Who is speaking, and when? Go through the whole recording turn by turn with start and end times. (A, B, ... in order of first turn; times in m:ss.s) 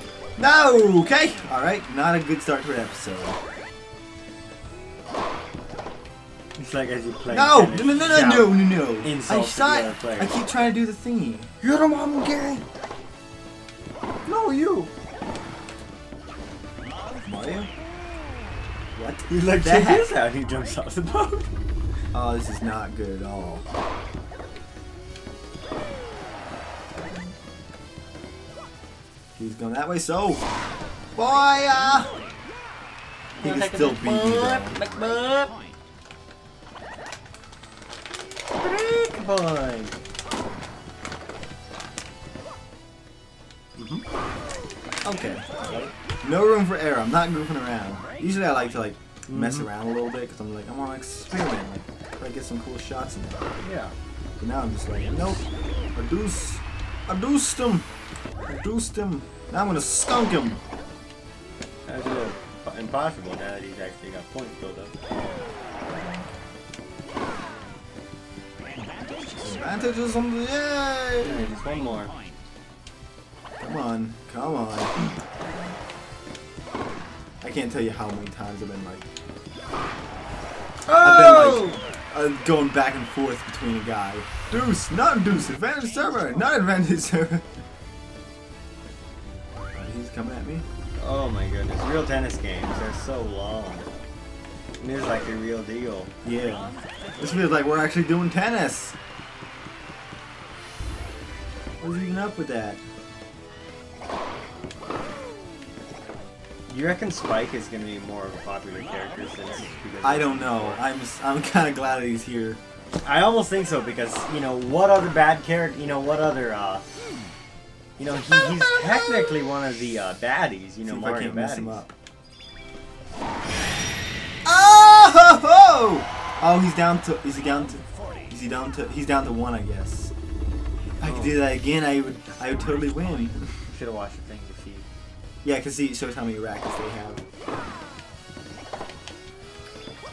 0:00.4-0:03.4 A
0:06.6-0:10.5 B
0:07.3-0:11.5 A
0:11.6-0:12.6 B
0:14.2-0:14.9 B
0:17.2-0:17.7 A
0:18.9-0:20.1 A
0:19.4-0:21.5 B
0:22.1-0:23.7 A
0:29.4-0:30.4 A
0:31.2-0:32.1 A
0:33.4-0:35.5 B
0:33.4-0:34.8 A
0:38.6-0:40.0 B
0:43.8-0:44.0 B
0:45.0-0:53.5 A
0:49.3-0:49.7 B
0:53.6-0:53.9 B
0:54.4-0:57.9 A
0:58.5-1:00.6 A
1:01.8-1:04.9 B
1:09.2-1:11.4 A
1:11.2-1:12.1 B
1:13.6-1:15.1 A
1:17.4-1:19.0 A
1:20.8-1:21.8 B
1:21.0-1:27.4 A
1:29.7-1:30.6 A
1:31.0-1:33.9 B
1:34.8-1:36.1 B
1:36.2-1:39.0 A
1:41.8-1:42.8 A
1:46.7-1:50.8 B
1:50.0-1:52.6 A
1:53.0-1:57.0 B
1:58.0-2:01.8 B
1:58.4-1:59.4 A
2:00.8-2:01.9 A
2:04.4-2:10.1 A
2:11.0-2:13.6 A
2:11.0-2:11.4 B
2:13.7-2:14.8 B
2:15.4-2:17.2 A